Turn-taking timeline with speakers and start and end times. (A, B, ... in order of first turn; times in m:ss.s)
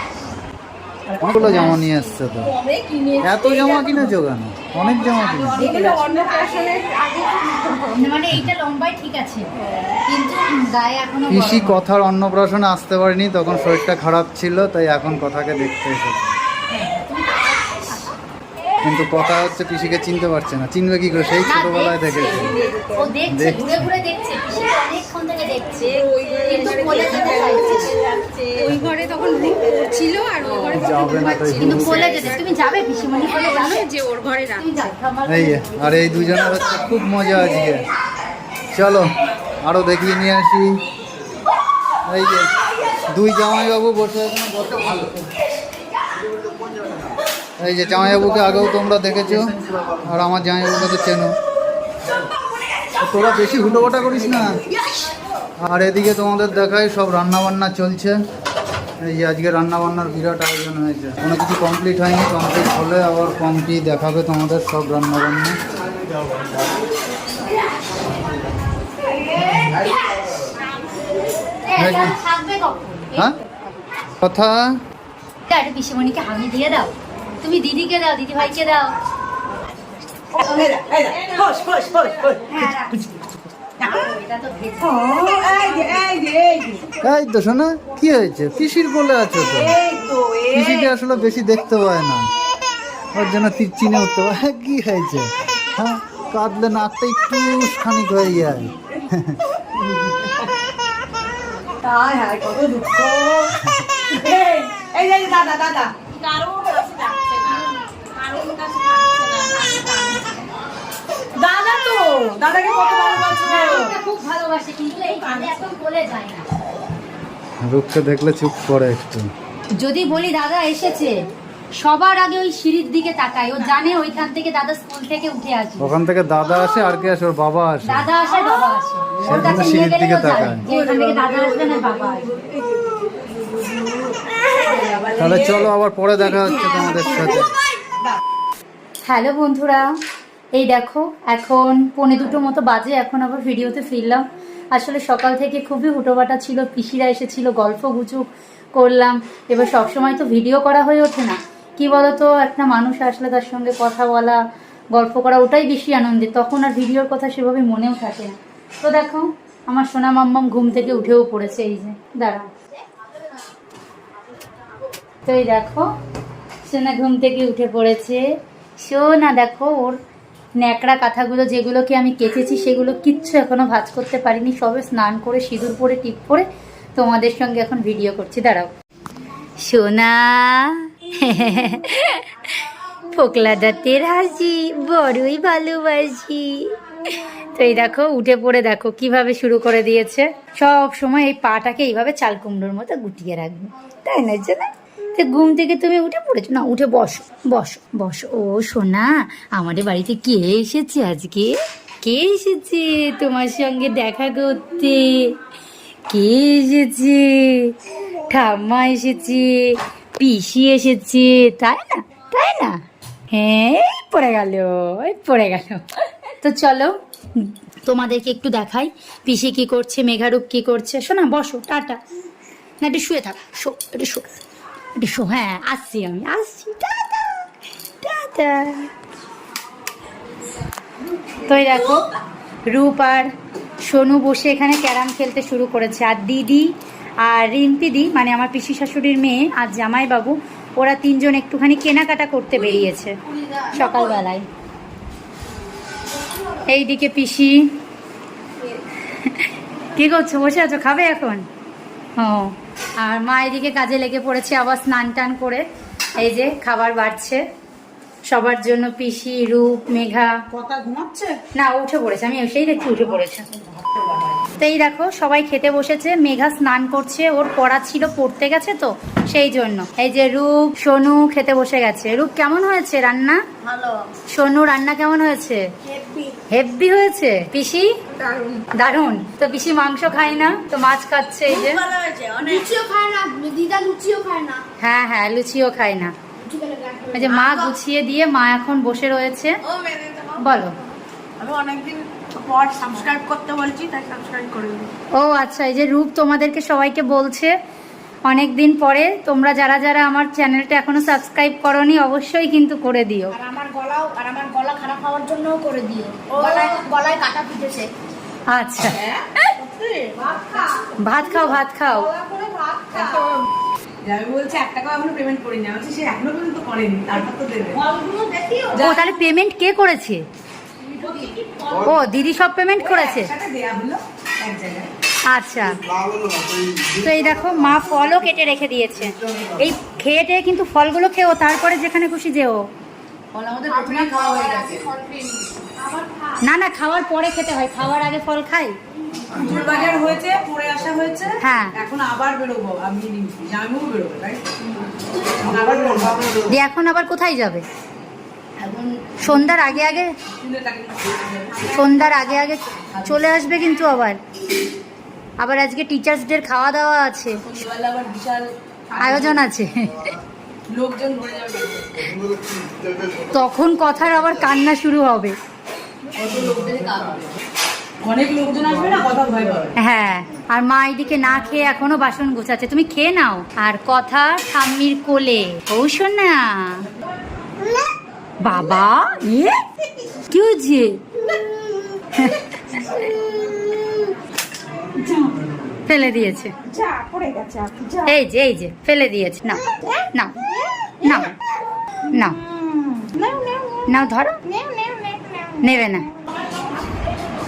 0:01.0-0:01.8 A
0:01.2-0:02.5 B
0:01.4-0:01.8 C
0:02.4-0:03.9 D
0:03.2-0:05.6 B
0:05.2-0:06.8 A
0:05.2-0:08.0 D
0:07.9-0:09.5 C
0:09.6-0:10.0 D
0:10.1-0:11.8 C
0:11.3-0:16.3 B
0:17.1-0:18.0 C
0:18.8-0:22.6 B
0:21.5-0:27.9 C
0:22.5-0:22.8 D
0:23.3-0:23.9 B
0:25.8-0:32.3 D
0:27.4-0:27.8 A
0:28.6-0:28.9 B
0:30.4-0:30.8 A
0:30.7-0:32.5 B
0:31.5-0:33.9 C
0:33.2-0:34.9 D
0:34.6-0:36.4 C
0:35.3-0:37.9 B
0:38.7-0:39.1 B
0:39.6-0:40.8 B
0:42.1-0:42.5 B
0:43.1-0:45.2 B
0:47.6-0:51.3 B
0:53.0-0:54.6 B
0:55.6-0:58.2 B
0:59.0-1:05.6 B
1:11.6-1:13.3 C
1:11.8-1:12.2 B
1:14.2-1:14.8 B
1:15.5-1:19.0 C
1:20.3-1:23.2 A
1:21.1-1:22.4 D
1:22.5-1:23.2 C
1:23.8-1:24.1 A
1:23.8-1:26.0 C
1:24.8-1:26.9 A
1:27.0-1:29.7 B
1:29.3-1:31.0 A
1:30.5-1:32.2 B
1:33.1-1:39.4 B
1:39.8-1:40.5 A
1:41.8-1:45.9 A
1:43.6-1:43.9 B
1:46.1-1:50.5 D
1:51.4-1:53.9 A
1:53.4-1:56.4 C
1:55.0-1:55.8 D
1:57.6-1:59.3 B
1:59.8-2:01.2 C
2:01.8-2:05.9 C
2:05.8-2:08.1 B
2:07.8-2:12.3 C
2:09.2-2:10.7 B
2:10.7-2:17.5 A
2:15.2-2:17.5 B
2:19.0-2:19.9 C
2:20.5-2:34.4 C
2:34.9-2:42.5 C
2:45.2-2:45.9 C
2:46.6-2:48.2 C
2:48.8-2:50.0 C
2:50.6-2:58.7 C
2:59.6-3:02.3 C
3:03.1-3:06.7 C
3:07.5-3:21.5 C
3:22.0-3:25.3 C
3:26.1-3:27.7 C
3:28.3-3:32.8 C
3:33.3-3:35.8 C
3:36.4-3:42.0 C
3:42.8-3:44.4 C
3:45.0-3:47.4 C
3:48.0-3:48.9 C
3:51.4-3:52.1 C
3:52.7-3:53.3 C
3:53.8-3:56.7 C
3:57.2-4:03.2 C
4:03.5-4:04.1 D
4:03.7-4:04.5 C
4:06.7-4:07.7 C
4:09.1-4:11.4 C
4:12.2-4:15.6 C
4:16.2-4:17.4 C
4:18.3-4:20.3 C
4:20.5-4:21.4 A
4:21.5-4:23.4 C
4:23.7-4:24.4 A
4:24.6-4:33.4 C
4:33.6-4:34.0 D
4:34.3-4:35.6 C
4:35.9-4:36.3 D
4:36.5-4:37.9 C
4:38.2-4:38.7 D
4:38.7-4:41.8 C
4:41.5-4:44.6 D
4:44.8-4:46.1 C
4:46.4-4:47.7 D
4:47.1-4:49.6 C
4:49.7-4:50.5 D
4:50.4-4:50.8 C
4:51.4-4:53.2 A
4:51.4-4:51.9 D
4:52.4-4:54.9 D
4:54.1-4:54.9 A
4:55.1-4:57.5 C
4:58.3-5:03.4 C
5:03.3-5:07.9 D
5:06.3-5:06.8 A
5:08.5-5:09.5 C
5:08.8-5:09.2 A
5:09.6-5:11.2 D
5:10.2-5:10.7 A
5:11.0-5:12.1 C
5:12.0-5:13.3 D
5:12.9-5:13.2 A
5:14.0-5:17.8 A
5:17.7-5:19.0 D
5:18.7-5:19.1 A
5:18.8-5:20.2 C
5:20.9-5:21.9 D
5:21.0-5:21.4 A
5:21.8-5:23.3 C
5:22.8-5:24.9 A
5:25.3-5:25.8 C
5:26.8-5:32.6 C
5:33.3-5:35.0 A
5:33.7-5:36.4 D
5:36.4-5:38.8 C
5:39.3-5:44.4 A
5:41.4-5:41.7 C
5:45.4-5:46.4 A
5:46.4-5:47.6 C
5:49.2-5:50.1 C
5:49.2-5:52.4 A
5:51.7-5:54.2 C
5:52.9-5:53.3 A
5:55.4-5:57.5 C
5:57.4-5:59.4 A
5:59.0-6:00.2 C
6:00.7-6:02.2 A
6:03.3-6:05.4 C
6:06.2-6:07.3 A
6:08.0-6:09.7 A
6:09.8-6:16.8 C
6:18.4-6:19.6 C
6:20.3-6:21.0 C
6:22.2-6:23.0 C
6:25.0-6:25.3 A
6:25.9-6:26.5 C
6:26.7-6:28.0 A
6:27.1-6:27.6 D
6:28.0-6:30.4 C
6:31.0-6:31.3 C
6:32.1-6:32.4 C
6:32.4-6:33.3 A
6:33.2-6:33.9 D
6:33.8-6:34.4 C
6:34.4-6:36.0 D
6:35.6-6:36.0 C